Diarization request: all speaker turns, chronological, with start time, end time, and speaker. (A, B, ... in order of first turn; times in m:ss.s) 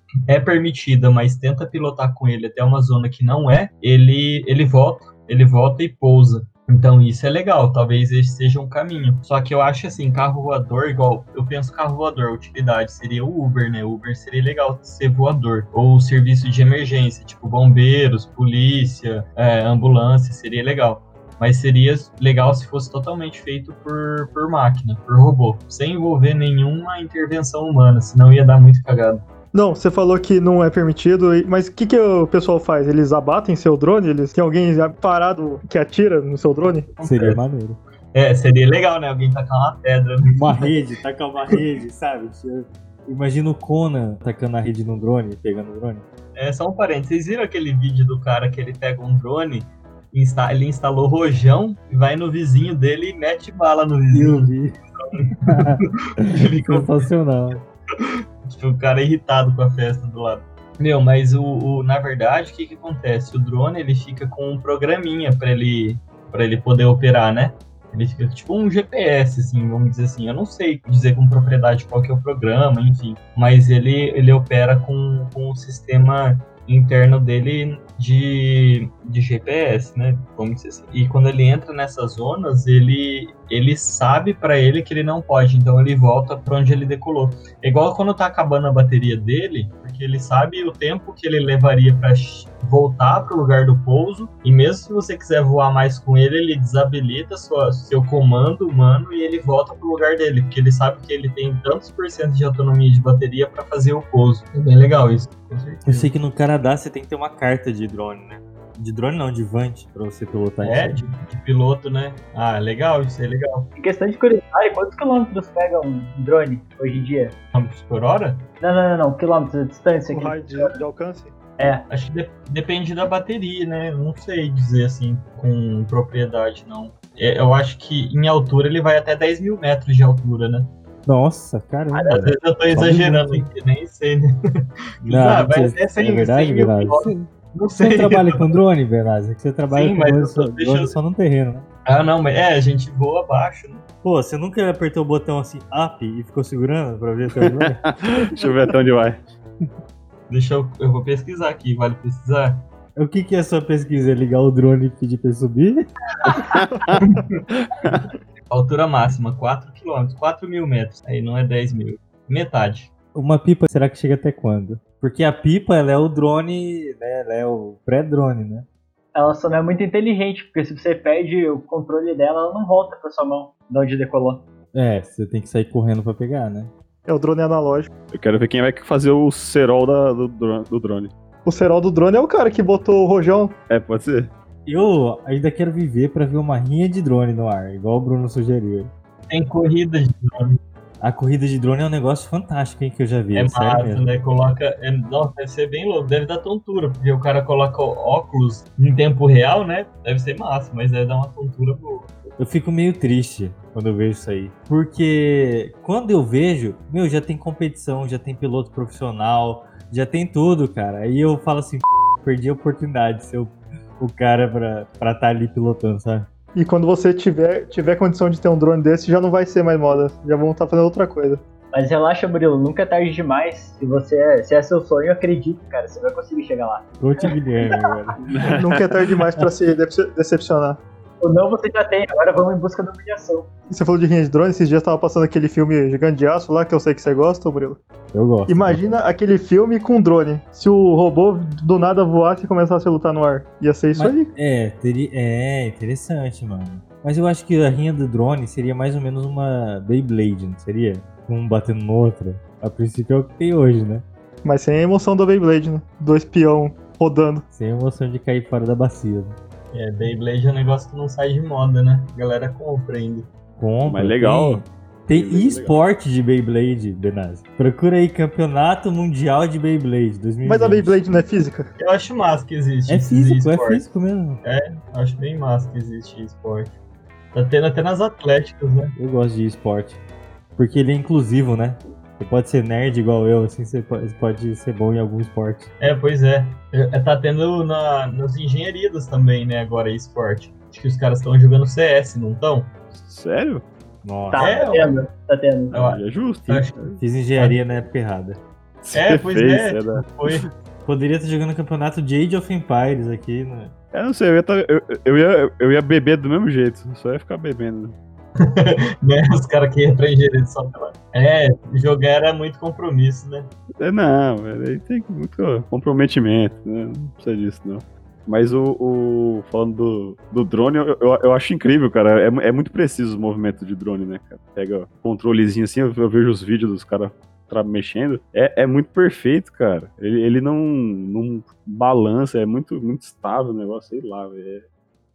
0:00.3-0:29.2 A
0:29.5-0:36.9 B
0:37.0-0:37.4 A
0:37.0-0:37.8 C
0:38.1-0:40.7 A
0:40.3-0:46.0 C
0:46.3-0:54.5 A
0:54.1-0:54.8 C
0:55.2-0:57.0 A
0:55.4-0:57.6 C
0:58.4-1:46.1 A
1:45.8-1:51.0 C
1:50.6-1:53.7 A
1:53.8-1:57.4 D
1:57.5-1:58.4 A
1:58.6-2:00.8 D
2:00.1-2:01.3 B
2:01.6-2:01.8 D
2:01.9-2:10.7 A
2:11.0-2:13.4 C
2:11.9-2:18.5 A
2:15.0-2:21.7 C
2:19.7-2:21.0 A
2:21.8-2:23.8 A
2:24.0-2:27.8 C
2:27.6-2:29.2 E
2:30.3-2:32.6 A
2:33.0-2:35.8 C
2:36.3-2:37.0 E
2:37.0-2:37.4 A
2:37.6-2:38.1 E
2:38.5-2:42.9 A
2:43.1-2:48.6 C
2:49.1-2:54.4 D
2:54.7-2:56.7 C
2:57.1-2:57.9 B
2:58.1-3:01.1 E
3:01.4-3:03.6 B
3:03.7-3:04.3 E
3:04.6-3:08.9 C
3:09.3-3:10.6 A
3:11.0-3:14.0 C
3:13.3-3:22.1 A
3:22.4-3:36.3 C
3:36.5-3:41.4 B
3:41.7-3:46.9 D
3:47.0-3:48.2 C
3:48.2-3:48.8 E
3:48.5-3:50.8 B
3:51.2-3:53.5 D
3:53.7-3:57.8 B
3:58.1-3:58.9 C
3:58.5-4:04.3 B
4:03.9-4:14.0 C
4:14.4-4:17.4 B
4:17.5-4:19.4 C
4:19.7-4:23.3 A
4:23.6-4:31.1 C
4:23.8-4:25.8 E
4:30.4-4:31.7 B
4:31.8-4:36.8 A
4:32.9-4:34.4 C
4:37.3-4:38.9 A
4:39.0-4:40.0 C
4:40.6-4:45.7 C
4:45.8-4:52.7 A
4:52.9-4:53.6 E
4:54.0-4:54.5 C
4:54.3-4:55.8 D
4:54.4-4:54.9 A
4:55.7-4:57.6 A
4:55.8-4:57.0 E
4:57.0-4:58.4 C
4:58.8-5:00.5 E
4:58.9-5:00.4 A
5:00.8-5:03.7 C
5:03.9-5:08.0 E
5:08.4-5:13.5 A
5:13.8-5:34.6 E